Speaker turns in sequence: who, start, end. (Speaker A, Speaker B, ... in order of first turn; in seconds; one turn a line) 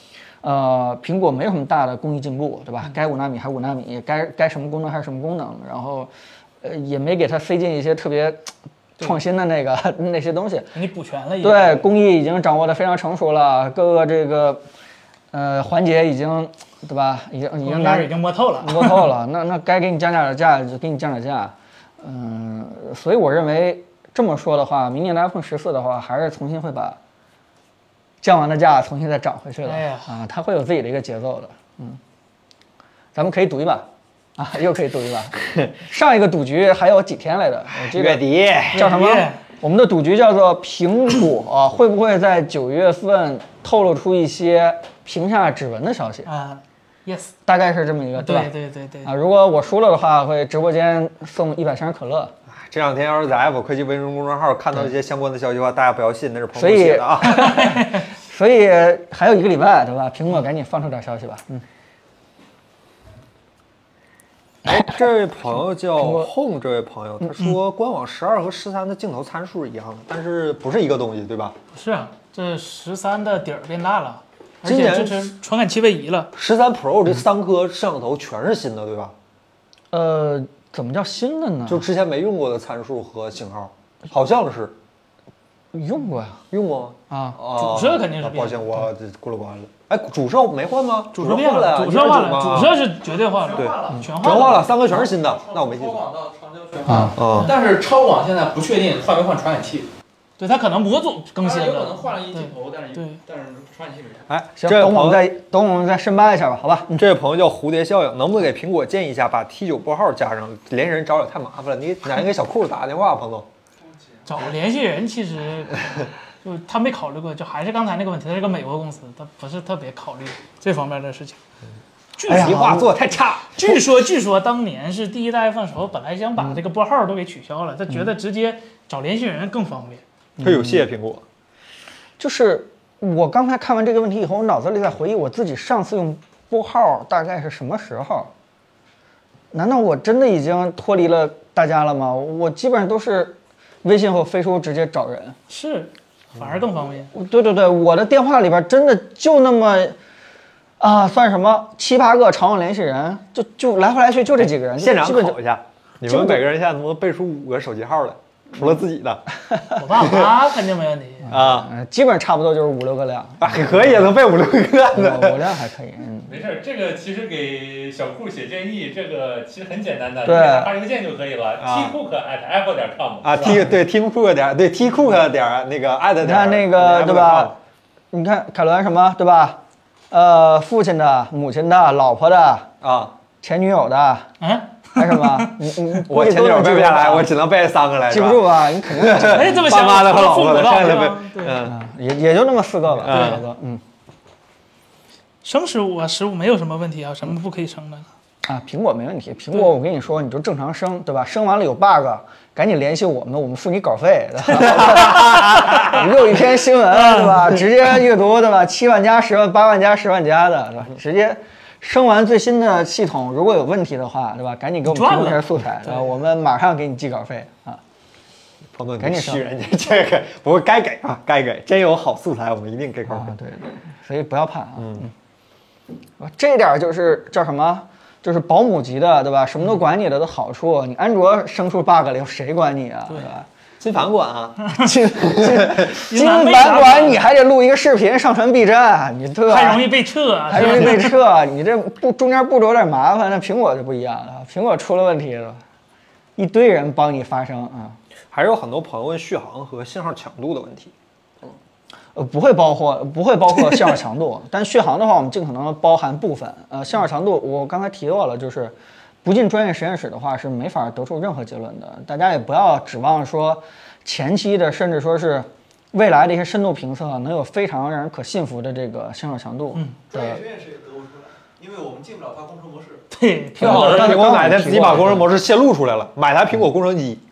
Speaker A: 0.4-6.1
Speaker A: 6.6-10.7
Speaker B: 10.7-11.9
Speaker A: 11.4-14.6
Speaker A: 15.3-27.0
Speaker B: 17.6-19.1
Speaker A: 28.2-32.0
Speaker B: 29.6-30.1
Speaker A: 33.1-33.9
Speaker A: 34.4-46.3
Speaker C: 37.7-38.9
Speaker B: 38.7-39.4
Speaker B: 46.2-47.3
Speaker A: 47.5-48.5
Speaker B: 48.2-49.1
Speaker A: 49.0-52.3
Speaker C: 52.5-57.8
Speaker A: 56.5-61.6
Speaker B: 57.4-57.9
Speaker C: 64.6-71.5
Speaker A: 66.0-66.3
Speaker B: 71.7-76.3
Speaker C: 74.6-75.3
Speaker C: 76.3-79.1
Speaker A: 79.9-81.8
Speaker C: 81.7-84.7
Speaker A: 85.7-86.4
Speaker C: 86.5-92.8
Speaker A: 87.1-87.4
Speaker B: 87.5-88.9
Speaker B: 91.1-95.0
Speaker D: 93.1-99.9
Speaker C: 93.5-96.0
Speaker A: 96.9-97.2
Speaker C: 97.2-97.5
Speaker B: 100.4-103.2
Speaker D: 101.4-104.3
Speaker C: 104.3-105.2
Speaker A: 104.6-107.0
Speaker C: 107.0-113.5
Speaker B: 114.2-121.4
Speaker B: 122.2-122.7
Speaker A: 122.3-122.9
Speaker C: 122.3-123.8
Speaker B: 123.5-130.0
Speaker A: 130.4-130.8
Speaker C: 130.4-131.2
Speaker A: 132.2-138.3
Speaker A: 139.5-145.4
Speaker B: 145.5-147.1
Speaker A: 147.1-149.9
Speaker A: 150.8-155.4
Speaker C: 154.6-159.2
Speaker A: 156.0-156.4
Speaker A: 159.5-159.8
Speaker B: 159.8-161.3
Speaker C: 159.9-160.3
Speaker A: 161.2-164.1
Speaker C: 161.3-161.7
Speaker C: 163.4-165.5
Speaker A: 164.9-166.3
Speaker E: 166.2-173.6
Speaker A: 170.2-170.7
Speaker C: 171.6-172.0
Speaker C: 173.2-177.6
Speaker A: 176.2-177.5
Speaker A: 178.1-179.6
Speaker A: 180.1-182.7
Speaker C: 182.8-183.1
Speaker A: 183.4-184.3
Speaker B: 184.4-185.5
Speaker A: 184.9-187.3
Speaker C: 186.1-191.7
Speaker A: 188.1-189.7
Speaker B: 189.3-191.6
Speaker A: 191.6-193.8
Speaker C: 192.9-193.4
Speaker B: 193.1-193.4
Speaker B: 195.4-198.1
Speaker A: 198.4-217.8
Speaker B: 204.8-205.6
Speaker B: 206.9-207.6
Speaker B: 214.8-216.1
Speaker C: 218.7-223.3
Speaker A: 219.0-219.4
Speaker A: 223.1-225.1
Speaker C: 224.8-225.1
Speaker A: 226.2-233.4
Speaker C: 233.8-235.8
Speaker A: 234.7-239.9
Speaker B: 235.8-237.2
Speaker B: 239.5-241.2
Speaker A: 240.5-245.6
Speaker A: 246.4-248.0
Speaker C: 248.3-250.9
Speaker A: 252.1-270.4
Speaker D: 270.1-273.0
Speaker B: 273.1-275.0
Speaker A: 273.6-275.3
Speaker C: 273.6-277.2